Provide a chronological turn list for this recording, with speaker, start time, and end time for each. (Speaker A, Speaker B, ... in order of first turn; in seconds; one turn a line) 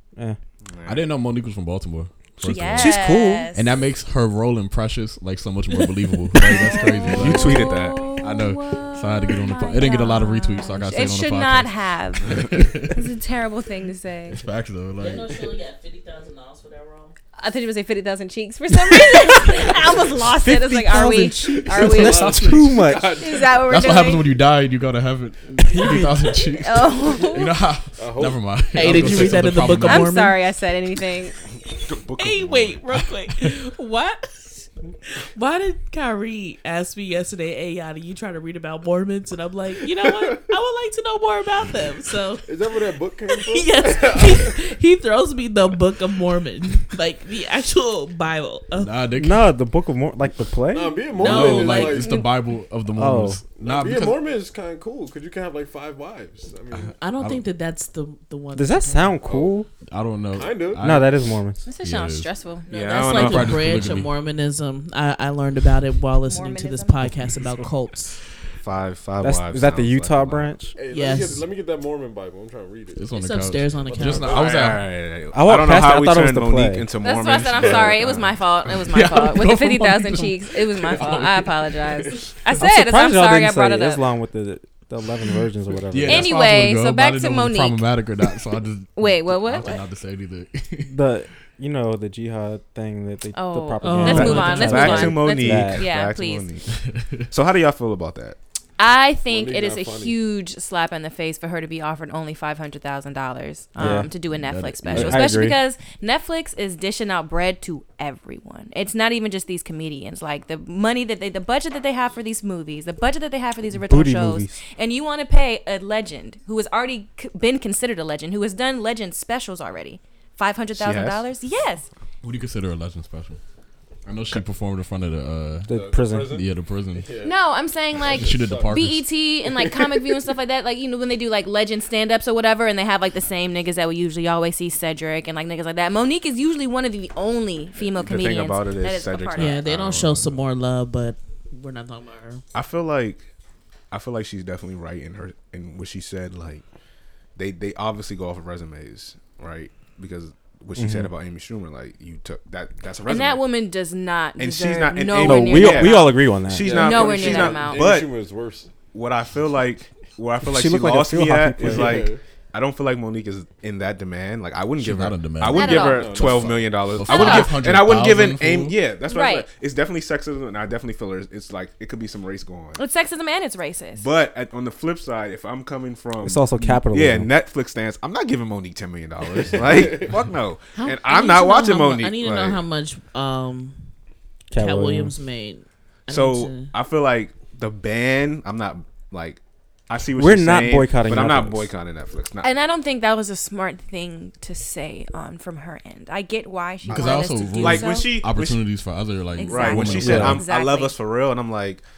Speaker A: 0.6-1.1
Speaker B: 0.8-13.1
Speaker C: 2.4-3.8
Speaker D: 2.7-3.5
Speaker C: 6.3-14.4
Speaker A: 7.1-8.1
Speaker B: 14.3-15.4
Speaker E: 14.9-17.1
Speaker C: 17.4-22.6
Speaker D: 20.1-23.2
Speaker F: 21.7-23.6
Speaker B: 21.9-22.8
Speaker C: 23.1-24.4
Speaker B: 23.6-30.1
Speaker D: 25.6-26.1
Speaker C: 26.4-27.5
Speaker F: 28.0-29.5
Speaker E: 28.7-30.4
Speaker C: 29.8-31.4
Speaker A: 31.8-32.8
Speaker E: 32.1-42.5
Speaker F: 40.0-40.4
Speaker F: 42.4-44.6
Speaker E: 43.3-49.0
Speaker B: 48.8-49.5
Speaker D: 49.1-51.1
Speaker F: 50.7-52.2
Speaker B: 51.1-54.2
Speaker E: 51.2-52.2
Speaker D: 52.9-53.4
Speaker F: 53.6-57.0
Speaker B: 56.7-57.4
Speaker E: 57.0-59.2
Speaker D: 58.5-59.7
Speaker F: 59.2-59.5
Speaker B: 59.9-62.3
Speaker F: 60.3-60.9
Speaker D: 60.8-61.6
Speaker C: 61.6-63.1
Speaker A: 62.7-63.6
Speaker E: 62.8-68.2
Speaker B: 63.1-64.1
Speaker C: 66.2-67.1
Speaker A: 68.6-70.5
Speaker D: 69.2-70.8
Speaker F: 70.8-73.1
Speaker E: 70.9-71.5
Speaker B: 73.0-74.8
Speaker E: 73.1-74.3
Speaker F: 73.8-74.7
Speaker A: 74.3-78.3
Speaker D: 75.3-76.9
Speaker C: 77.0-84.0
Speaker B: 78.7-82.3
Speaker D: 82.6-86.3
Speaker B: 85.9-91.0
Speaker C: 86.0-87.8
Speaker C: 89.0-89.8
Speaker D: 90.8-95.8
Speaker C: 93.3-96.5
Speaker E: 93.8-95.1
Speaker A: 94.1-96.7
Speaker B: 96.7-97.2
Speaker A: 97.3-98.4
Speaker C: 98.8-121.9
Speaker F: 99.2-100.2
Speaker D: 103.8-104.1
Speaker B: 103.8-105.3
Speaker D: 104.9-105.6
Speaker D: 113.7-114.6
Speaker A: 120.8-121.3
Speaker B: 122.2-123.4
Speaker B: 124.0-127.1
Speaker D: 125.7-126.4
Speaker F: 125.7-127.4
Speaker C: 127.2-139.6
Speaker F: 128.0-128.9
Speaker B: 128.1-129.1
Speaker A: 137.8-140.3
Speaker E: 139.3-142.4
Speaker A: 142.5-143.3
Speaker A: 143.9-146.6
Speaker A: 147.3-153.4
Speaker D: 150.8-151.1
Speaker C: 153.1-157.9
Speaker A: 154.4-158.1
Speaker D: 155.2-156.8
Speaker F: 156.6-158.7
Speaker A: 158.9-172.8
Speaker D: 160.4-162.1
Speaker F: 161.6-162.2
Speaker B: 164.8-166.3
Speaker C: 165.5-166.2
Speaker F: 165.8-166.6
Speaker B: 166.9-168.8
Speaker C: 167.1-167.5
Speaker C: 169.1-169.5
Speaker C: 172.8-174.1
Speaker A: 173.9-182.6
Speaker D: 176.2-177.3
Speaker F: 179.6-180.1
Speaker E: 180.7-183.8
Speaker D: 184.5-185.1
Speaker E: 184.5-186.7
Speaker A: 186.1-192.5
Speaker D: 190.2-191.7
Speaker C: 192.4-198.1
Speaker A: 196.9-198.7
Speaker B: 196.9-200.4
Speaker C: 199.3-200.9
Speaker A: 199.4-201.8
Speaker D: 200.0-200.4